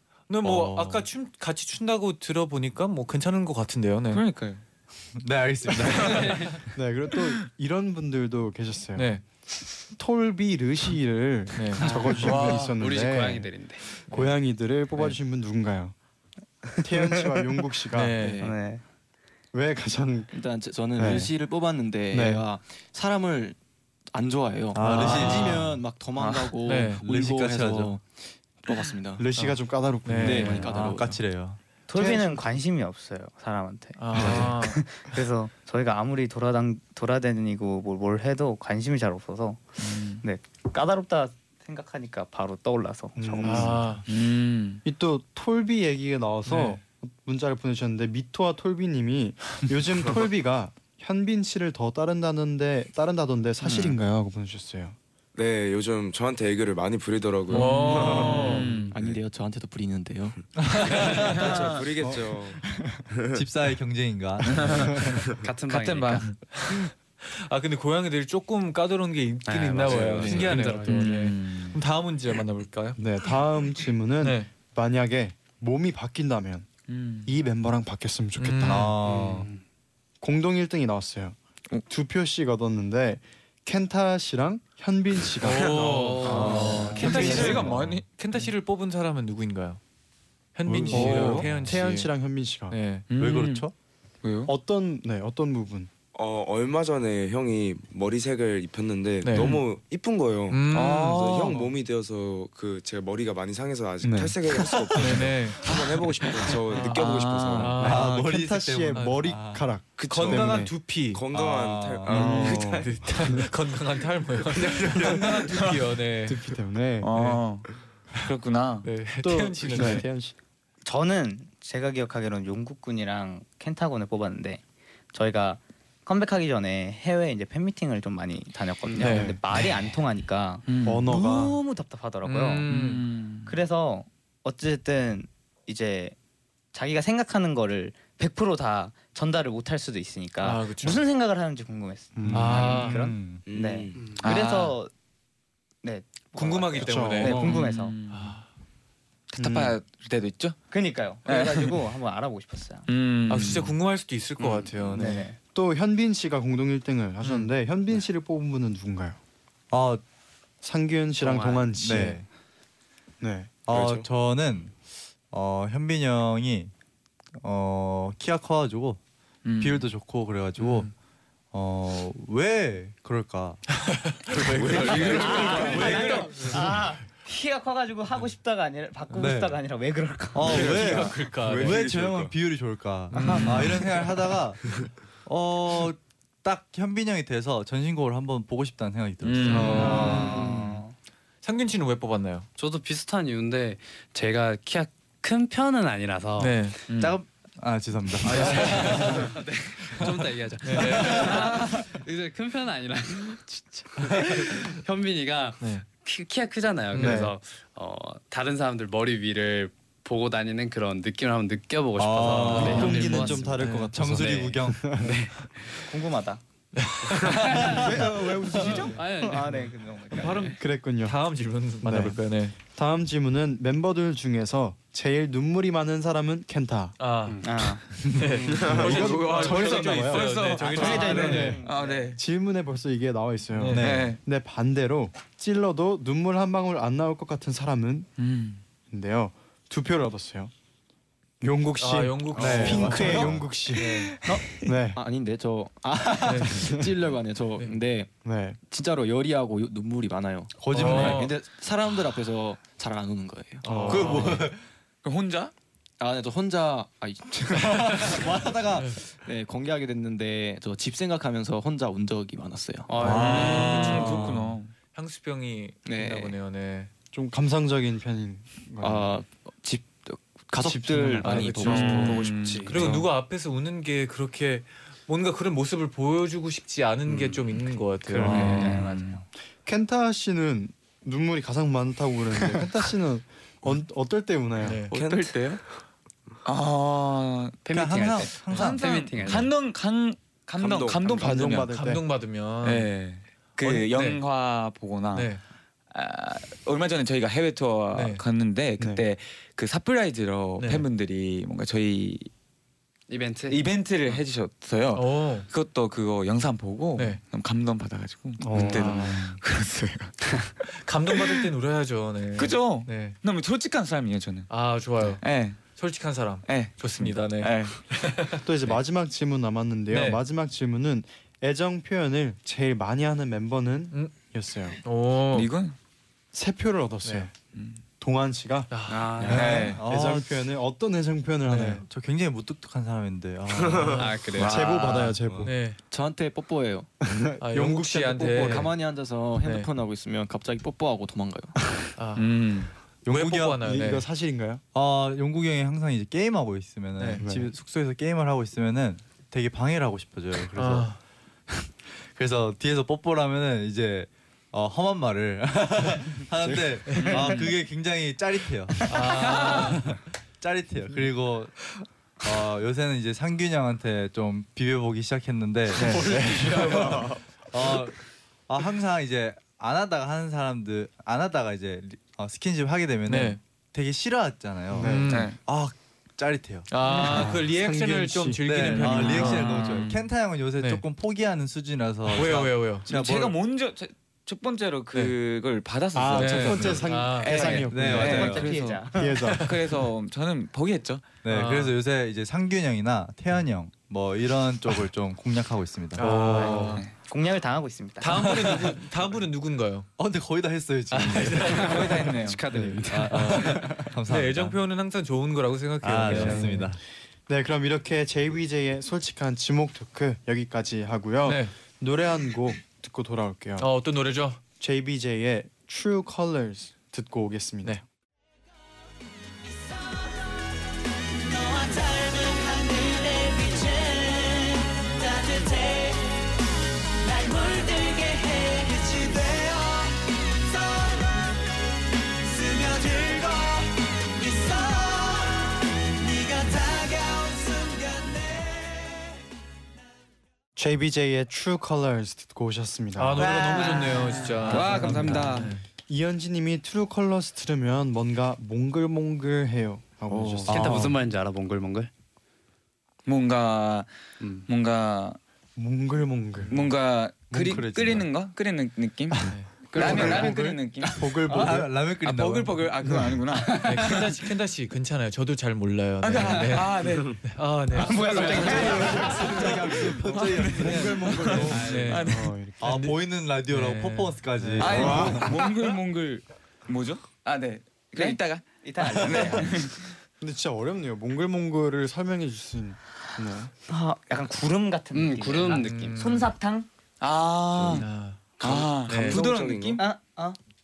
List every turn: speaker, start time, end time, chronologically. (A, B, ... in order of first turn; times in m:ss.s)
0:00.3-0:04.2 A
0:00.4-0:01.1 B
0:04.1-0:04.6 C
0:05.2-0:06.6 B
0:05.9-0:06.3 C
0:06.1-0:06.5 D
0:06.7-0:09.2 E
0:09.0-0:09.2 A
0:10.0-0:13.5 E
0:11.5-0:12.4 A
0:11.8-0:14.0 D
0:12.2-0:12.7 C
0:14.0-0:16.0 E
0:16.8-0:18.2 E
0:17.9-0:18.4 A
0:18.2-0:18.6 F
0:18.4-0:18.8 G
0:19.5-0:20.3 E
0:20.3-0:23.6 F
0:21.0-0:21.3 E
0:22.1-0:22.4 E
0:24.1-0:28.0 F
0:24.7-0:25.8 B
0:24.8-0:25.8 A
0:26.2-0:26.5 C
0:26.6-0:27.0 A
0:27.0-0:28.0 B
0:28.6-0:29.3 F
0:29.2-0:31.0 E
0:29.4-0:30.6 A
0:30.2-0:31.2 F
0:30.5-0:31.6 B
0:31.9-0:43.8 G
0:31.9-0:32.4 E
0:34.0-0:34.8 A
0:34.2-0:34.5 E
0:39.8-0:40.2 C
0:43.2-0:44.0 E
0:43.4-0:44.0 A
0:44.1-0:44.8 C
0:44.8-0:55.0 E
0:46.5-0:46.8 A
0:55.4-0:59.2 H
0:57.5-0:58.9 A
0:57.6-0:59.0 C
0:57.9-0:58.7 E
0:58.9-1:00.4 F
1:00.6-1:01.4 B
1:00.9-1:01.8 C
1:01.2-1:03.4 H
1:02.0-1:03.0 E
1:03.3-1:05.1 B
1:04.4-1:05.1 C
1:05.4-1:06.3 D
1:05.7-1:06.5 C
1:06.5-1:13.0 A
1:09.5-1:11.3 D
1:09.9-1:10.3 H
1:10.9-1:11.8 C
1:13.0-1:16.7 E
1:14.2-1:14.5 A
1:16.9-1:17.3 C
1:17.2-1:18.9 E
1:18.4-1:18.9 A
1:18.6-1:19.5 B
1:19.0-1:19.6 D
1:20.2-1:27.8 E
1:25.4-1:29.8 A
1:25.6-1:27.0 D
1:26.3-1:28.4 C
1:26.3-1:28.0 B
1:30.6-1:32.1 A
1:30.7-1:31.8 B
1:30.8-1:32.8 E
1:30.9-1:31.5 C
1:32.7-1:33.1 A
1:33.1-1:33.6 C
1:33.2-1:33.7 B
1:34.2-1:34.5 C
1:34.4-1:35.9 E
1:36.1-1:47.8 H
1:39.2-1:39.6 A
1:39.4-1:39.6 C
1:40.5-1:41.6 A
1:40.7-1:41.6 C
1:44.0-1:44.4 E
1:45.0-1:45.7 A
1:46.7-1:47.0 A
1:46.7-1:47.8 C
1:47.6-1:48.1 A
1:47.7-1:49.6 B
1:47.8-1:50.8 E
1:49.0-1:49.2 A
1:50.0-1:52.7 H
1:50.0-1:51.2 A
1:51.3-1:52.7 B
1:52.1-1:53.5 E
1:52.1-1:56.4 A
1:55.0-1:55.8 C
1:55.0-1:55.4 E
1:56.3-1:57.1 E
1:57.0-1:58.9 C
1:58.8-2:00.0 A
1:59.2-2:00.4 E
2:00.8-2:04.6 G
2:05.1-2:12.7 G
2:08.9-2:09.2 D
2:09.0-2:09.4 A
2:09.0-2:09.4 E
2:10.7-2:11.1 C
2:10.8-2:11.6 E
2:12.2-2:13.1 A
2:12.7-2:13.5 C
2:13.5-2:16.2 G
2:16.7-2:24.9 G
2:20.4-2:21.0 A
2:22.2-2:23.0 E
2:22.3-2:23.4 B
2:22.3-2:23.0 A
2:23.5-2:24.2 H
2:24.0-2:24.2 D
2:24.2-2:24.8 C
2:25.8-2:28.0 G
2:26.4-2:27.6 A
2:26.8-2:27.5 E
2:27.2-2:27.6 B
2:27.3-2:28.4 C
2:28.1-2:28.4 A
2:29.3-2:30.6 C
2:29.4-2:29.8 E
2:30.7-2:32.9 G
2:31.3-2:31.8 C
2:32.9-2:33.7 C
2:33.3-2:35.2 A
2:34.4-2:35.4 G
2:34.9-2:39.2 E
2:37.2-2:37.5 A
2:39.7-2:40.0 B
2:40.6-2:42.2 E
2:41.7-2:42.2 B
2:43.2-2:43.6 E
2:43.7-2:44.8 B
2:43.7-2:44.1 H
2:45.3-2:46.7 B
2:47.4-2:49.0 B
2:49.4-2:49.9 C
2:49.6-2:50.9 B
2:50.6-2:50.9 A
2:51.5-2:53.6 B
2:53.8-2:56.8 A
2:54.4-2:56.4 C
2:54.4-2:56.2 H
2:55.1-3:01.0 G
2:59.1-2:59.6 B
3:00.3-3:04.7 B
3:00.5-3:02.2 A
3:01.4-3:02.2 H
3:03.1-3:04.0 A
3:03.2-3:03.8 C
3:05.2-3:10.6 B
3:09.2-3:10.8 C
3:09.4-3:10.2 A
3:09.5-3:10.0 E
3:09.6-3:10.9 G
3:09.7-3:10.7 D
3:11.4-3:12.5 A
3:12.6-3:16.7 D
3:16.4-3:16.8 A
3:16.9-3:17.2 C
3:17.0-3:19.3 B
3:18.2-3:19.2 A
3:18.3-3:35.8 D
3:20.6-3:21.6 A
3:25.6-3:25.8 A
3:26.9-3:27.3 A
3:27.0-3:27.3 E
3:32.0-3:35.0 B
3:32.4-3:33.9 A
3:32.5-3:33.9 E
3:34.7-3:35.2 E
3:35.8-3:36.4 G
3:36.8-3:37.7 A
3:37.2-3:39.7 D
3:37.6-3:40.5 G
3:40.1-3:42.6 A
3:40.6-3:41.2 E
3:41.8-3:47.0 E
3:47.0-3:51.6 A
3:47.3-3:47.7 D
3:47.4-3:47.8 G
3:48.2-3:58.1 E
3:48.5-3:49.4 H
3:48.6-3:52.2 C
3:50.6-3:52.1 G
3:50.8-3:51.2 D
3:53.6-3:54.1 A
3:53.7-3:54.1 B
3:53.8-3:54.2 C
3:58.2-3:58.6 C
3:58.9-4:00.5 E
4:01.4-4:05.0 E
4:01.8-4:03.8 A
4:02.4-4:03.4 B
4:03.7-4:04.7 C
4:04.9-4:08.1 F
4:06.2-4:06.7 A
4:06.6-4:06.9 E
4:08.2-4:08.6 E
4:08.7-4:14.4 F
4:10.6-4:11.3 B
4:10.7-4:11.3 A
4:13.6-4:14.4 E
4:13.6-4:14.4 A
4:13.9-4:14.6 B
4:15.0-4:15.5 C
4:16.0-4:18.6 F
4:17.6-4:19.1 B
4:19.2-4:23.0 F
4:22.9-4:24.1 D
4:23.0-4:24.5 B
4:23.0-4:24.7 C
4:23.2-4:26.9 A
4:25.9-4:26.4 F
4:27.1-4:29.1 E
4:28.8-4:32.3 F
4:30.6-4:33.1 E
4:31.2-4:38.8 A
4:31.6-4:33.0 C
4:32.0-4:32.7 D
4:38.1-4:38.7 E
4:38.2-4:39.2 C
4:38.2-4:38.8 B
4:38.3-4:39.2 G
4:39.6-4:44.8 E
4:44.6-4:44.9 A
4:44.9-4:45.6 F
4:44.9-4:45.6 C
4:46.4-4:47.6 C
4:47.6-4:49.5 D
4:47.7-4:49.4 B
4:48.5-4:51.7 C
4:48.5-4:48.8 A
4:50.6-4:51.4 H
4:51.0-4:52.0 E
4:51.6-4:52.9 A
4:52.6-4:55.4 C
4:53.6-4:54.2 A
4:55.1-4:55.4 A
4:55.9-5:02.3 C
4:57.9-4:58.2 A
5:00.6-5:00.8 A
5:03.1-5:03.6 D
5:03.5-5:10.2 C
5:04.9-5:05.5 A
5:08.4-5:09.3 E
5:08.6-5:09.3 A
5:10.8-5:13.2 A
5:12.4-5:14.5 C
5:14.5-5:18.8 A
5:15.0-5:15.6 C
5:16.5-5:17.8 C
5:18.4-5:24.8 E
5:19.9-5:20.2 A
5:24.8-5:25.5 A
5:25.3-5:25.8 C
5:26.3-5:27.3 E
5:27.0-5:27.3 A
5:27.5-5:27.8 C
5:28.0-5:28.7 E
5:28.7-5:29.7 A
5:28.9-5:29.8 D
5:29.2-5:29.8 C
5:29.3-5:30.3 B
5:29.3-5:31.8 E
5:31.5-5:31.8 A
5:31.9-5:34.1 B
5:33.5-5:34.0 H
5:33.9-5:35.0 D
5:34.4-5:35.2 C
5:34.4-5:35.6 E
5:35.4-5:35.8 A
5:35.9-5:36.9 F
5:37.0-5:38.7 E
5:37.4-5:38.8 A
5:38.4-5:41.6 F
5:39.4-5:39.7 A
5:42.0-5:44.0 A
5:42.2-5:42.7 C
5:43.1-5:43.9 B
5:43.6-5:44.6 E
5:44.7-5:50.9 B
5:47.0-5:47.2 A
5:47.2-5:47.5 E
5:50.5-5:51.0 A
5:51.6-6:01.6 B
5:56.9-5:57.5 A
5:57.0-5:57.5 C
5:58.9-5:59.8 A
5:59.1-5:59.6 C
6:02.2-6:16.7 B
6:05.8-6:06.7 E
6:13.1-6:13.4 A
6:14.7-6:15.2 E
6:14.8-6:15.3 A
6:15.1-6:15.4 C
6:16.7-6:19.9 A
6:17.0-6:17.4 C
6:17.0-6:19.3 E
6:18.4-6:23.4 B
6:18.8-6:20.1 C
6:22.1-6:22.9 A
6:22.9-6:31.1 C
6:25.9-6:29.6 E
6:26.2-6:27.6 A
6:26.2-6:26.8 B
6:27.7-6:28.5 B
6:27.9-6:29.2 G
6:29.3-6:29.9 A
6:31.2-6:36.1 B
6:31.3-6:31.8 A
6:36.0-6:36.8 A
6:36.0-6:36.9 C
6:36.1-6:38.3 G
6:38.0-6:39.9 A
6:38.2-6:38.7 B
6:40.0-6:41.9 B
6:40.9-6:42.1 A
6:41.4-6:44.0 D
6:41.6-6:42.4 C
6:42.5-6:44.6 B
6:43.1-6:46.7 A
6:45.8-6:46.8 B
6:46.1-6:46.6 D
6:47.3-6:53.7 E
6:51.2-6:51.5 A
6:53.6-6:54.4 A
6:54.6-6:57.8 E
6:59.6-7:00.4 I
7:01.0-7:06.4 I
7:07.0-7:19.2 I
7:20.6-7:23.3 E
7:23.0-7:25.6 A
7:23.2-7:25.5 C
7:24.4-7:25.3 D
7:24.7-7:30.8 E
7:30.1-7:30.8 B
7:30.5-7:30.9 A
7:30.5-7:31.9 D
7:33.1-7:33.9 C
7:34.2-7:34.5 D
7:34.5-7:35.2 C
7:35.6-7:36.7 E
7:36.5-7:44.2 C
7:37.3-7:38.1 B
7:39.1-7:41.8 E
7:39.7-7:40.4 D
7:41.3-7:42.8 B
7:42.8-7:43.2 E
7:43.4-7:43.9 D
7:43.6-7:49.1 A
7:46.0-7:53.0 C
7:46.2-7:46.6 D
7:48.0-7:51.6 B
7:48.0-7:49.6 D
7:50.8-7:52.9 E
7:51.3-7:52.1 D
7:51.5-7:52.2 A
7:52.6-7:55.3 B
7:53.5-7:55.2 A
7:54.6-7:59.9 C
7:54.6-7:55.2 E
7:54.8-7:55.2 H
7:57.9-7:59.6 G
8:00.2-8:03.5 E
8:03.7-8:06.7 G
8:04.9-8:06.0 D
8:05.5-8:06.3 A
8:07.0-8:07.9 C
8:07.5-8:07.8 H
8:07.7-8:08.2 A
8:08.4-8:09.8 H
8:08.4-8:09.8 C
8:08.8-8:09.2 A
8:09.8-8:10.4 G